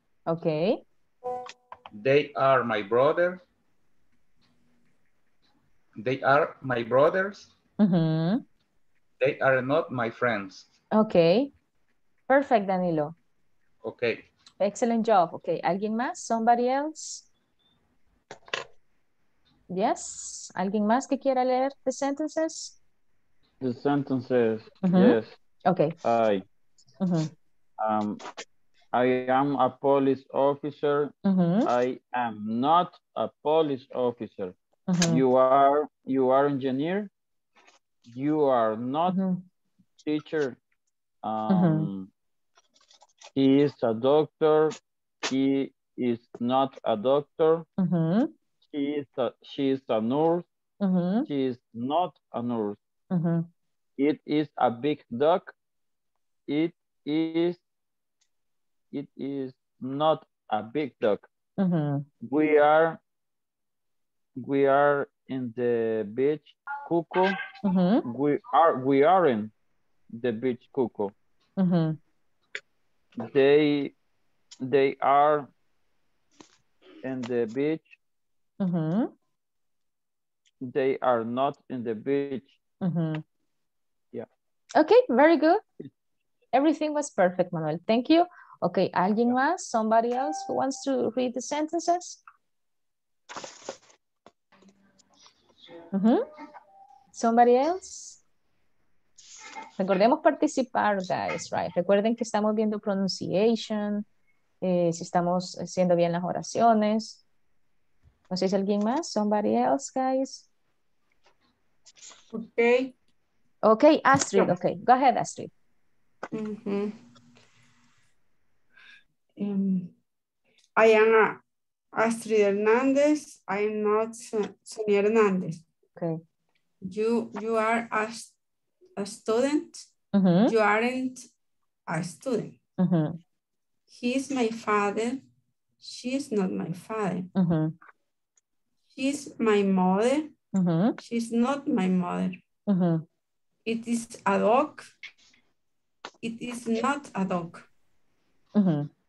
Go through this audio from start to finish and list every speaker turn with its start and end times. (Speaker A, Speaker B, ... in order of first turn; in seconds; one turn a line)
Speaker A: 0.3-0.8
Speaker B: 1.9-3.4
Speaker B: 6.0-7.5
Speaker A: 7.8-8.4
Speaker B: 9.2-10.7
Speaker A: 10.9-11.5
Speaker A: 12.3-13.1
Speaker B: 13.8-14.3
Speaker A: 14.6-17.3
Speaker A: 19.7-22.8
Speaker C: 23.6-25.3
Speaker A: 24.8-25.9
Speaker C: 26.0-26.4
Speaker A: 27.0-27.3
Speaker C: 27.8-28.2
Speaker C: 28.9-31.1
Speaker A: 31.2-31.7
Speaker C: 31.6-34.5
Speaker A: 34.9-35.2
Speaker C: 35.0-37.1
Speaker C: 38.1-39.2
Speaker A: 39.1-39.4
Speaker C: 40.0-40.6
Speaker C: 41.2-42.1
Speaker A: 41.5-41.9
Speaker C: 43.3-44.8
Speaker C: 45.3-47.7
Speaker A: 47.8-48.3
Speaker C: 48.7-50.5
Speaker A: 50.8-51.3
Speaker C: 51.3-52.8
Speaker A: 53.1-53.5
Speaker C: 54.0-55.5
Speaker C: 56.5-57.6
Speaker C: 58.9-61.2
Speaker A: 61.6-62.0
Speaker C: 62.2-63.0
Speaker C: 64.4-67.4
Speaker A: 67.6-68.0
Speaker C: 68.0-69.5
Speaker C: 70.1-71.1
Speaker A: 71.6-72.0
Speaker C: 73.2-73.9
Speaker C: 74.6-75.5
Speaker C: 77.0-77.9
Speaker A: 78.6-79.1
Speaker C: 80.6-82.5
Speaker A: 82.8-83.2
Speaker A: 84.8-85.6
Speaker A: 86.5-92.2
Speaker A: 95.9-96.2
Speaker A: 97.1-98.2
Speaker A: 99.8-104.0
Speaker A: 104.6-107.2
Speaker A: 108.3-110.5
Speaker D: 112.3-112.9
Speaker A: 113.6-115.5
Speaker D: 116.3-117.0
Speaker D: 119.4-119.9
Speaker D: 120.8-121.4
Speaker D: 121.9-125.6
Speaker A: 126.0-126.2
Speaker D: 126.8-128.3
Speaker D: 129.0-129.9
Speaker A: 130.1-130.5
Speaker D: 130.5-131.3
Speaker D: 131.9-132.6
Speaker A: 132.8-133.2
Speaker D: 133.9-135.2
Speaker D: 135.8-137.3
Speaker A: 137.3-137.7
Speaker D: 138.9-140.3
Speaker A: 140.5-140.9
Speaker D: 141.0-142.4
Speaker A: 142.7-143.0
Speaker D: 143.7-144.9
Speaker D: 146.2-147.7
Speaker A: 148.6-148.9